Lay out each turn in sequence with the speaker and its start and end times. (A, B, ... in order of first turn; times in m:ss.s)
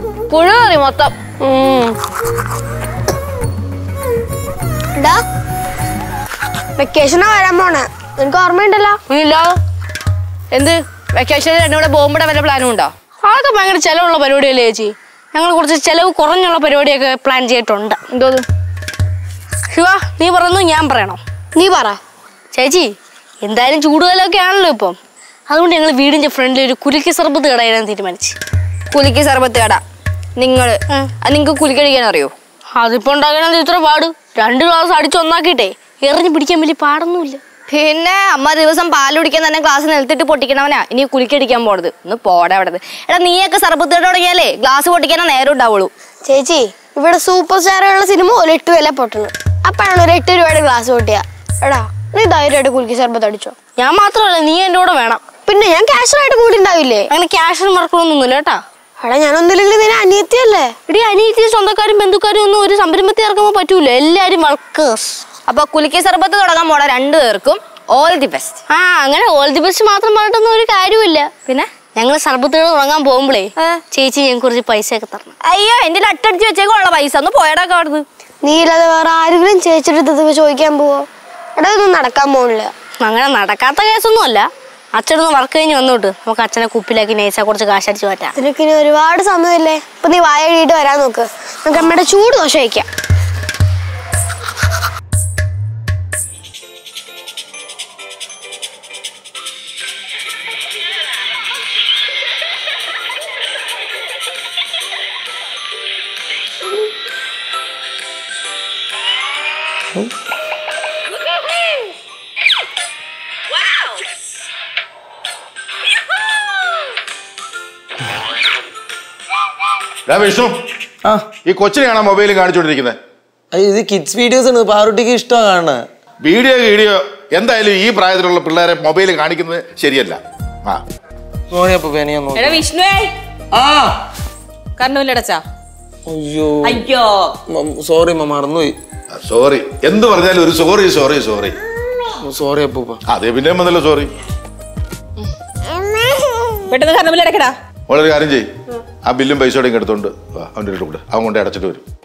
0:00.3-0:01.1 A
0:01.4-0:02.0 B
0:05.0-0:05.2 B
0:06.8-0:09.0 B
0:09.1-0:09.6 A
0:10.5-0:12.9 C
0:13.2-0:18.0 A
0:18.1-0:18.4 C
0:19.7-0:21.2 A
0:21.6-0:22.0 B
0:22.5-0:25.0 A
0:25.5-0:28.4 A
0:28.9-0:29.8 C
0:30.4-0:32.3 C
0:32.7-0:37.4 A
0:37.7-0:45.9 C
0:46.2-0:53.5 B
0:53.8-0:55.2 A
0:55.5-0:57.1 B
0:57.1-0:58.6 A
0:59.0-1:00.8 B
1:00.9-1:05.0 A
1:05.5-1:08.6 C
1:08.7-1:11.3 A
1:12.0-1:15.3 A
1:15.4-1:18.0 C
1:18.4-1:22.7 B
1:23.0-1:28.4 A
1:28.4-1:32.9 B
2:00.1-2:00.6 D
2:01.4-2:03.0 D
2:03.5-2:05.8 E
2:06.2-2:10.8 D
2:11.5-2:12.6 E
2:12.4-2:13.1 F
2:13.5-2:14.0 E
2:14.8-2:15.4 F
2:16.1-2:16.8 E
2:16.6-2:17.3 F
2:17.5-2:18.8 E
2:19.2-2:21.6 D
2:22.2-2:23.0 E
2:23.1-2:24.1 D
2:26.7-2:27.5 F
2:27.9-2:28.4 D
2:29.0-2:31.8 D